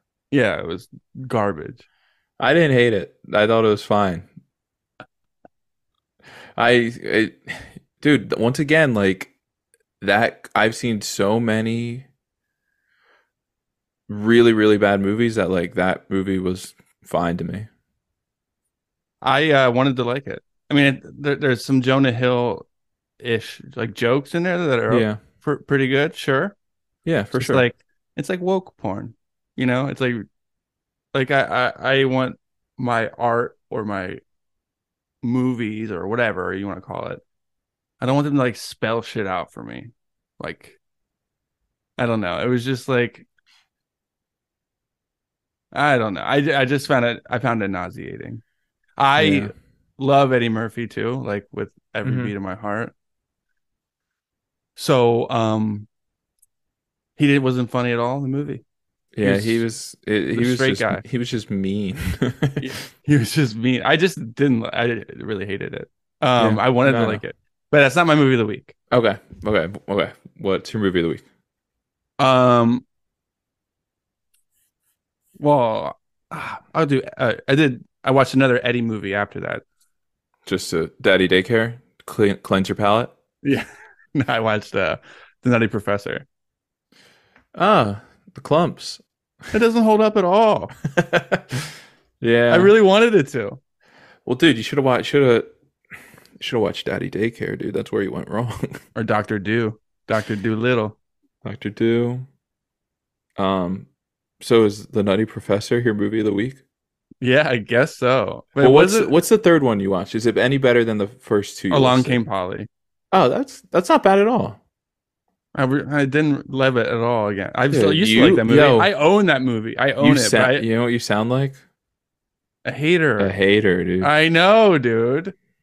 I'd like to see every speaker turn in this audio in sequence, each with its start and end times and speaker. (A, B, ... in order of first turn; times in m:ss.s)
0:00.3-0:01.8 A
0:02.4-0:04.3 B
0:06.6-0:09.3 B
0:10.0-0:12.1 B
0:14.1-0:17.7 B
0:19.2-0:22.7 A
0:23.2-0:26.6 A
0:24.9-0:25.2 B
0:27.1-0:27.6 B
0:27.3-0:30.3 A
0:31.1-0:34.2 A
0:35.2-0:37.2 A
0:38.0-0:40.8 A
0:42.0-0:43.3 A
0:45.7-0:48.4 A
0:49.0-0:52.9 A
0:49.2-0:49.5 B
0:52.0-0:52.3 B
0:54.8-0:55.9 A
0:57.2-0:58.6 A
0:59.2-1:02.8 B
0:59.2-0:59.7 A
1:00.3-1:01.0 A
1:02.6-1:08.8 A
1:06.4-1:07.2 B
1:08.9-1:11.2 B
1:12.2-1:12.8 A
1:15.4-1:19.6 A
1:20.5-1:23.1 B
1:23.4-1:26.3 A
1:27.6-1:29.0 B
1:29.5-1:30.7 A
1:30.9-1:32.7 B
1:32.5-1:33.6 A
1:34.2-1:35.5 B
1:36.4-1:38.8 B
1:39.0-1:41.0 A
1:41.4-1:42.3 B
1:43.4-1:43.9 B
1:44.4-1:46.6 B
1:47.2-1:49.1 A
1:48.6-1:52.2 B
1:51.7-1:52.7 A
1:53.1-1:54.6 B
1:55.6-2:00.7 A
1:57.7-1:58.9 B
2:00.0-2:01.6 B
2:02.6-2:03.4 A
2:03.2-2:04.1 B
2:04.0-2:05.3 A